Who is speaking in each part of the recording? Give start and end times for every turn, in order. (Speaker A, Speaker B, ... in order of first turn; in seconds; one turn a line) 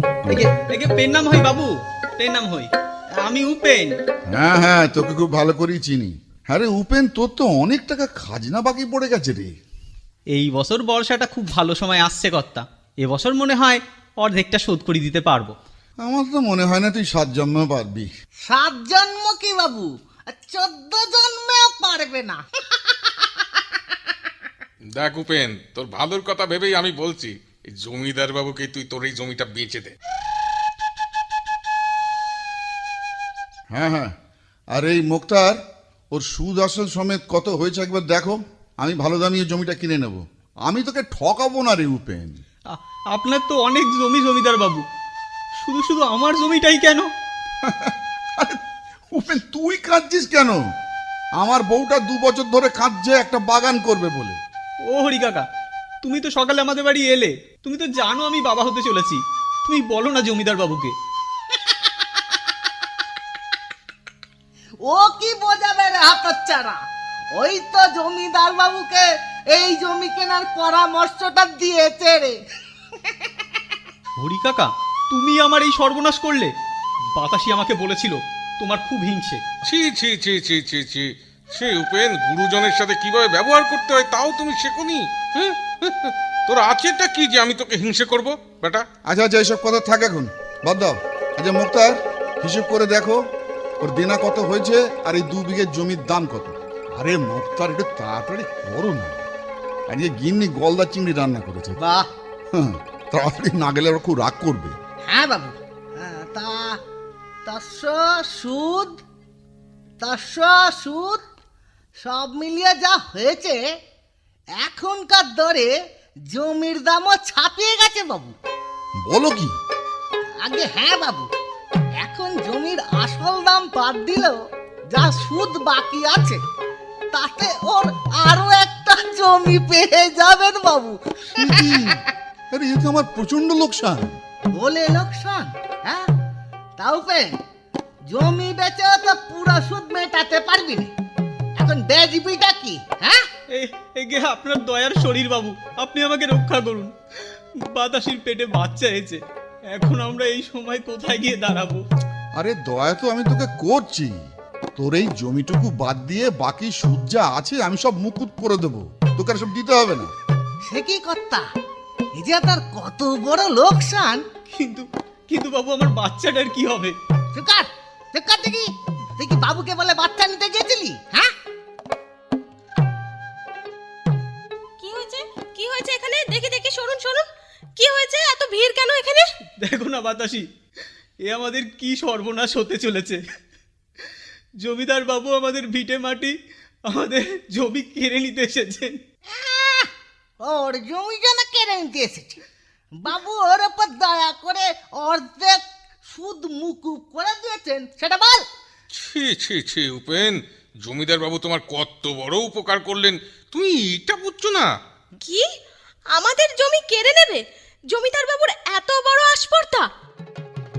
Speaker A: 0.3-2.7
Speaker A: 3.2-4.0
Speaker B: 4.3-9.6
Speaker A: 10.3-15.6
Speaker B: 16.0-18.1
Speaker C: 18.4-24.1
Speaker D: 24.9-29.9
Speaker B: 33.7-34.1
Speaker B: 34.7-35.6
Speaker B: 36.1-42.4
Speaker A: 42.7-44.8
Speaker A: 45.6-47.1
Speaker B: 47.6-48.6
Speaker B: 49.1-50.6
Speaker B: 51.4-54.4
Speaker A: 54.9-55.5
Speaker A: 56.0-60.9
Speaker C: 61.5-62.5
Speaker C: 64.8-66.8
Speaker C: 67.3-72.4
Speaker C: 73.0-73.3
Speaker A: 74.2-76.5
Speaker A: 77.2-79.4
Speaker D: 79.6-88.8
Speaker B: 89.1-93.2
Speaker B: 93.8-99.2
Speaker B: 99.9-101.8
Speaker C: 101.8-102.1
Speaker B: 102.5-104.8
Speaker C: 105.1-106.8
Speaker C: 107.4-109.0
Speaker C: 110.0-111.2
Speaker C: 112.0-113.6
Speaker C: 114.6-115.7
Speaker C: 116.3-118.3
Speaker B: 119.0-119.5
Speaker C: 120.4-121.3
Speaker C: 122.0-124.4
Speaker C: 124.9-126.4
Speaker C: 127.1-132.0
Speaker B: 131.3-134.2
Speaker C: 134.5-136.0
Speaker C: 136.8-137.4
Speaker C: 138.1-140.9
Speaker C: 141.6-143.2
Speaker A: 143.5-146.9
Speaker A: 147.7-149.2
Speaker A: 149.7-151.8
Speaker B: 152.4-154.2
Speaker B: 154.8-160.1
Speaker C: 160.7-161.4
Speaker C: 162.2-164.2
Speaker A: 164.5-166.9
Speaker C: 167.3-171.3
Speaker E: 174.8-179.3
Speaker A: 179.6-180.5
Speaker A: 181.3-183.2
Speaker A: 184.6-186.3
Speaker A: 186.9-189.0
Speaker C: 189.3-189.9
Speaker C: 190.4-192.4
Speaker C: 192.9-198.4
Speaker D: 198.9-204.7
Speaker E: 205.2-205.4
Speaker E: 206.1-209.9